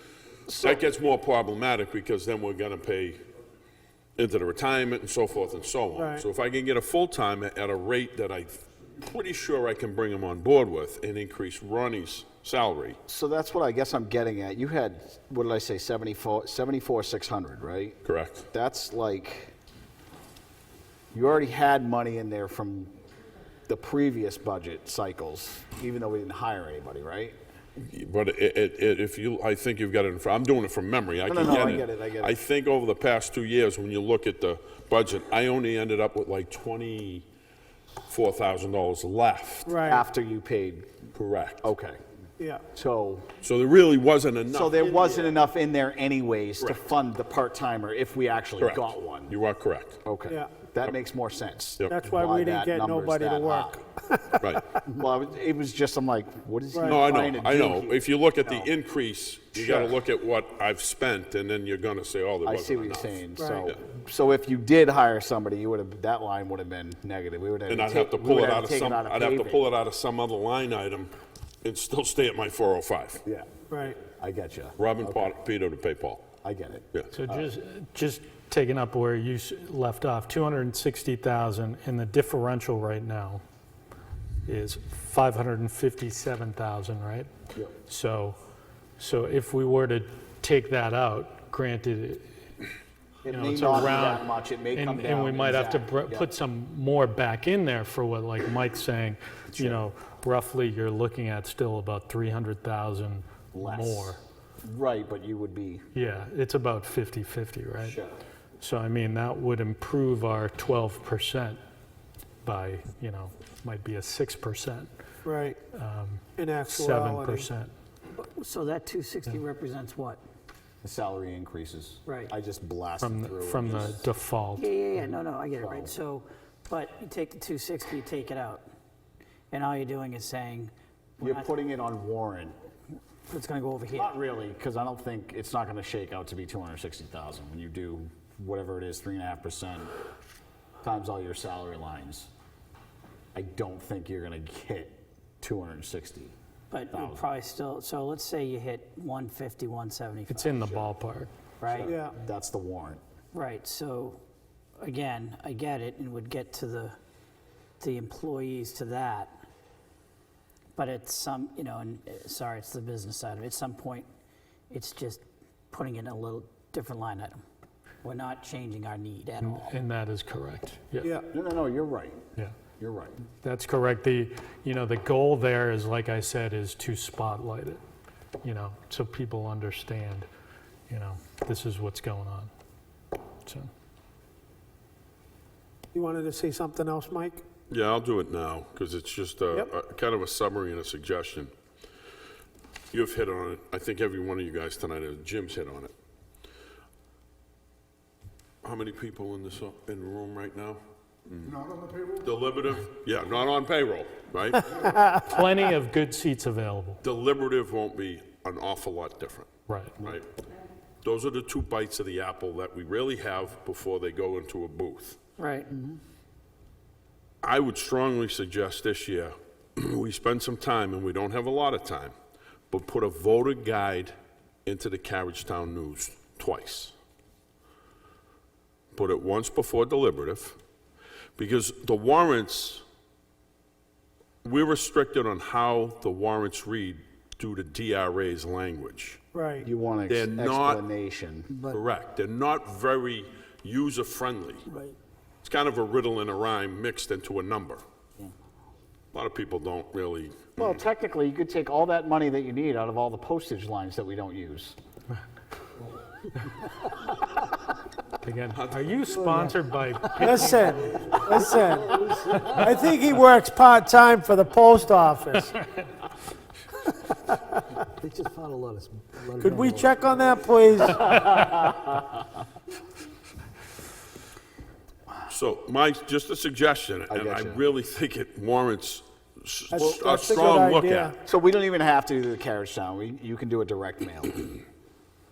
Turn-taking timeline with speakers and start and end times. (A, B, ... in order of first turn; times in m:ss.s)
0:00.5-0:00.8 A
0:00.5-0:03.2 B
0:04.2-0:13.0 B
0:06.0-0:06.2 C
0:13.1-0:19.5 A
0:18.0-0:18.5 B
0:21.1-0:22.9 A
0:23.7-0:27.4 A
0:27.8-0:37.3 B
0:31.3-0:32.4 A
0:38.1-0:39.7 B
0:39.6-0:40.0 C
0:39.8-0:40.9 A
0:41.2-0:41.7 B
0:41.6-0:42.0 A
0:42.7-0:43.3 A
0:43.4-0:45.4 B
0:44.5-0:49.4 A
0:48.6-0:50.0 B
0:50.0-0:53.8 A
0:50.3-0:50.5 C
0:51.9-0:54.4 C
0:54.4-0:54.8 B
0:54.8-0:58.7 A
0:56.7-0:57.0 C
0:56.8-1:03.8 B
0:59.6-1:00.0 A
1:02.4-1:09.7 A
1:03.4-1:03.6 C
1:07.7-1:11.1 B
1:11.6-1:13.2 B
1:13.2-1:15.3 A
1:13.7-1:14.0 C
1:14.8-1:16.2 B
1:16.4-1:17.5 A
1:17.1-1:23.4 D
1:24.5-1:27.3 D
1:27.9-1:28.4 D
1:29.0-1:32.3 D
1:33.2-1:36.3 A
1:33.3-1:44.2 D
1:39.5-1:39.8 A
1:43.5-1:45.9 A
1:46.0-1:48.0 D
1:47.8-1:48.2 A
1:48.6-1:51.6 D
1:52.4-1:54.9 D
1:55.2-1:55.6 C
1:55.7-1:57.7 D
1:56.4-1:57.5 C
1:58.1-2:00.2 E
2:00.8-2:04.0 A
2:02.1-2:02.3 E
2:03.0-2:05.0 D
2:04.6-2:08.7 E
2:05.5-2:05.9 A
2:09.5-2:11.5 E
2:11.2-2:12.6 A
2:13.3-2:14.1 E
2:13.9-2:19.9 A
2:20.8-2:22.3 A
2:23.3-2:26.3 A
2:26.7-2:30.6 E
2:26.9-2:27.2 A
2:30.3-2:31.3 D
2:30.6-2:30.9 A
2:31.6-2:32.0 E
2:31.7-2:33.0 A
2:31.8-2:32.2 C
2:33.3-2:34.2 E
2:34.8-2:37.0 E
2:37.8-2:39.4 E
2:40.8-2:44.1 E
2:44.7-2:47.4 E
2:48.0-2:49.7 E
2:49.4-2:51.1 D
2:51.3-2:52.2 A
2:52.8-2:53.2 A
2:53.4-2:57.8 D
2:58.4-3:00.3 D
3:00.9-3:02.5 D
3:05.9-3:07.4 C
3:07.7-3:11.5 B
3:12.9-3:15.9 B
3:18.6-3:25.2 B
3:25.1-3:27.0 D
3:27.0-3:30.3 B
3:29.7-3:30.0 D
3:31.0-3:35.2 B
3:35.4-3:36.0 E
3:37.4-3:42.1 B
3:42.7-3:44.1 B
3:44.7-3:47.0 B
3:48.9-3:50.6 B
3:51.4-3:52.8 B
3:54.4-3:59.2 B
3:59.3-3:59.7 C
3:59.6-4:01.6 A
4:00.1-4:00.8 B
4:01.7-4:04.6 B
4:05.4-4:07.8 B
4:09.1-4:10.8 B
4:10.6-4:14.8 A
4:18.2-4:20.7 D
4:18.5-4:19.0 B
4:19.1-4:22.8 F
4:20.2-4:22.0 C
4:22.5-4:25.6 C
4:28.0-4:30.5 F
4:29.4-4:31.1 C
4:31.0-4:31.5 D
4:35.3-4:41.2 B
4:37.1-4:37.6 A
4:39.7-4:41.2 C
4:41.2-4:44.6 A